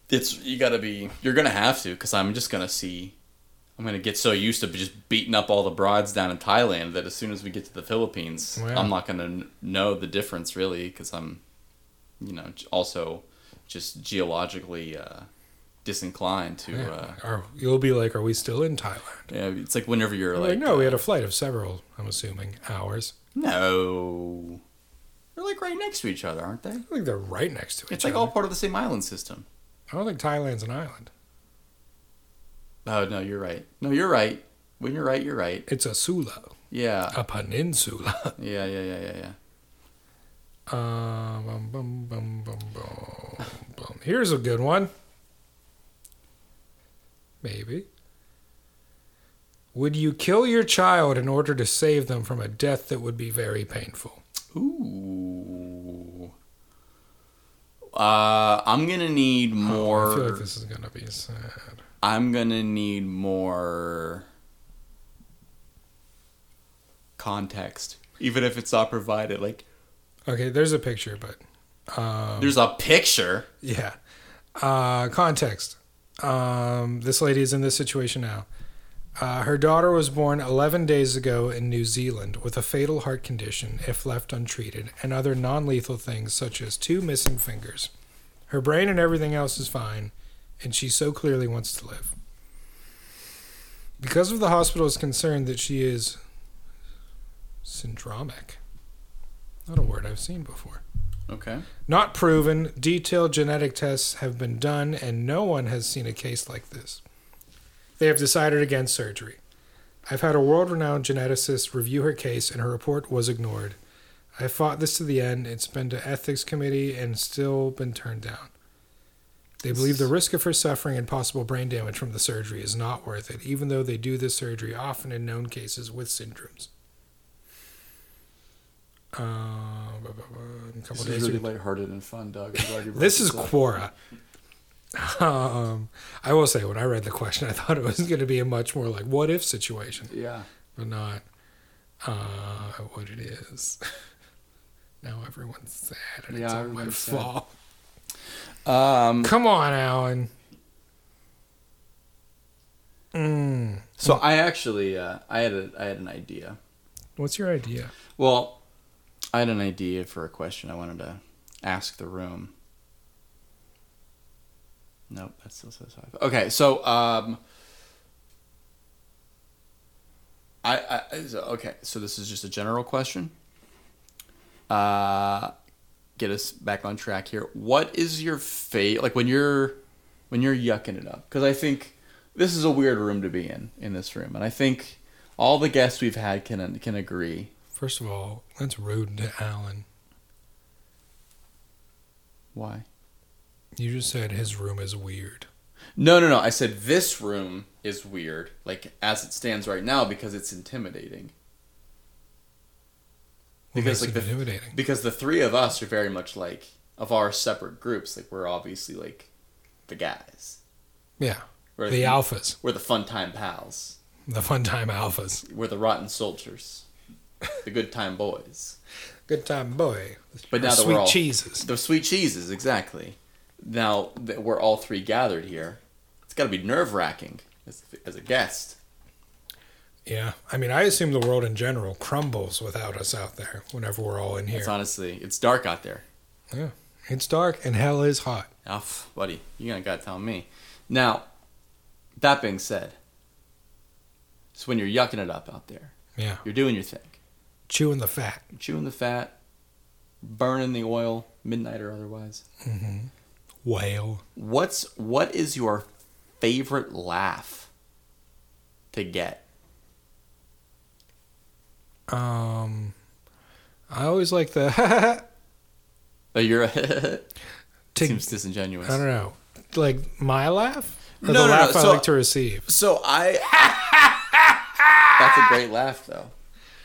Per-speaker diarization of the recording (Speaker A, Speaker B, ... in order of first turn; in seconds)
Speaker A: 0.1-3.1, 3.8-11.4, 12.2-15.3, 15.8-17.2, 19.3-21.0, 23.4-24.6, 25.4-26.9, 27.9-29.5, 32.9-35.7, 36.7-37.2, 38.4-39.4, 54.5-56.3, 57.9-60.4, 62.0-64.3, 67.2-69.6, 72.4-73.5, 101.3-101.7, 119.7-120.1, 130.9-133.6, 140.1-140.5, 146.3-147.3, 148.7-149.3, 154.0-156.6, 158.2-158.6, 159.3-162.5, 165.1-167.4, 170.6-173.3, 174.7-175.5, 176.2-179.8, 180.3-187.5, 192.5-192.9, 196.0-201.3, 203.8-209.3, 209.9-210.6, 211.8-214.0, 215.5-216.9, 217.6-218.8, 220.5-228.8, 234.5-236.1, 238.7-241.2, 242.2-243.0, 244.6-245.9, 246.4-247.2, 248.5-249.3, 250.2-252.4, 254.4-255.9, 256.4-257.7, 258.9-259.4, 266.3-267.3, 268.0-269.0, 271.2-272.1, 272.7-274.2, 275.2-276.3
Speaker B: 8.6-8.9, 16.7-19.3, 20.4-23.1, 26.9-28.3, 29.9-31.1, 35.7-36.5, 37.1-38.4, 40.7-44.9, 47.4-47.9, 49.7-54.2, 59.6-61.8, 70.3-71.4, 71.9-72.6, 73.6-74.0, 74.6-78.5, 79.2-87.9, 88.5-92.1, 94.0-96.2, 97.7-98.6, 99.7-100.8, 101.9-107.0, 108.0-109.4, 110.1-113.8, 114.4-118.5, 119.6-126.7, 129.1-131.5, 132.6-133.9, 134.9-140.1, 140.8-141.2, 142.0-143.8, 145.0-147.5, 149.2-150.3, 153.1-154.2, 157.2-157.9, 187.8-189.8, 193.8-195.5, 203.7-204.8, 211.2-212.6, 214.3-215.4, 219.3-221.7, 230.1-234.8, 236.5-238.5, 246.2-246.4, 247.7-248.4, 252.6-253.1, 253.6-254.2, 262.1-262.9, 263.9-265.2, 267.9-268.3, 268.8-272.6, 273.7-275.4